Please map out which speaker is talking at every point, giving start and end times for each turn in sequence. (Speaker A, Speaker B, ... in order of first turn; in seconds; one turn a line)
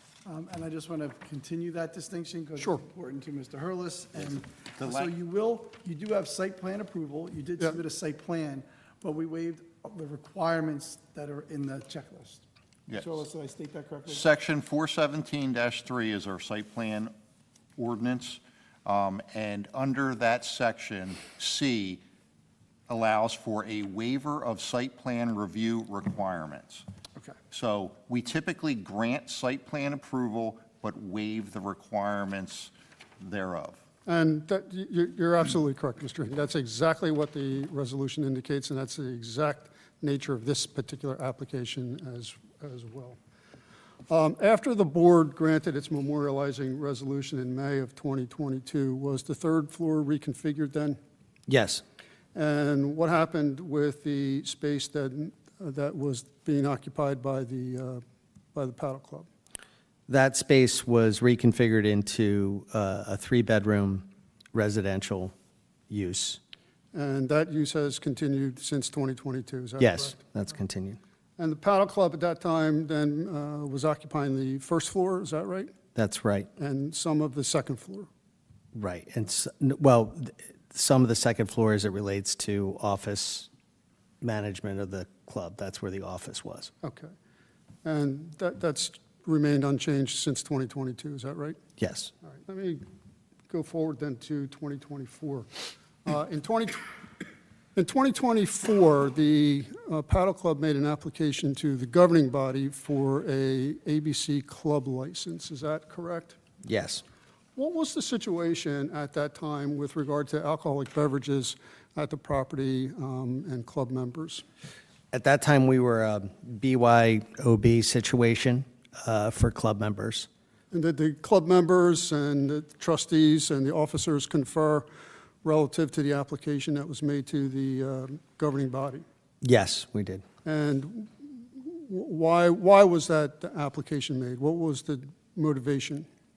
Speaker A: 0.2-12.4
Speaker B: 2.6-2.8
Speaker C: 4.1-5.1
Speaker C: 12.9-13.1
Speaker A: 13.0-14.3
Speaker C: 14.1-17.1
Speaker C: 17.8-22.0
Speaker C: 22.9-26.8
Speaker C: 27.5-33.8
Speaker B: 34.0-43.2
Speaker B: 44.1-51.0
Speaker D: 51.5-51.8
Speaker B: 52.3-58.0
Speaker B: 58.5-59.3
Speaker D: 60.1-65.3
Speaker D: 65.9-66.4
Speaker B: 66.9-70.2
Speaker D: 69.8-71.0
Speaker B: 71.4-75.7
Speaker D: 75.9-76.5
Speaker B: 76.6-78.1
Speaker D: 78.7-83.5
Speaker D: 84.2-86.7
Speaker B: 86.8-87.1
Speaker B: 87.8-91.6
Speaker D: 91.8-92.1
Speaker B: 92.3-92.8
Speaker B: 93.5-95.5
Speaker B: 96.0-96.9
Speaker B: 97.8-106.3
Speaker D: 106.6-107.0
Speaker B: 107.5-114.4
Speaker D: 115.1-120.3
Speaker B: 120.7-124.8
Speaker B: 125.4-129.0
Speaker D: 129.4-130.2
Speaker B: 130.4-136.1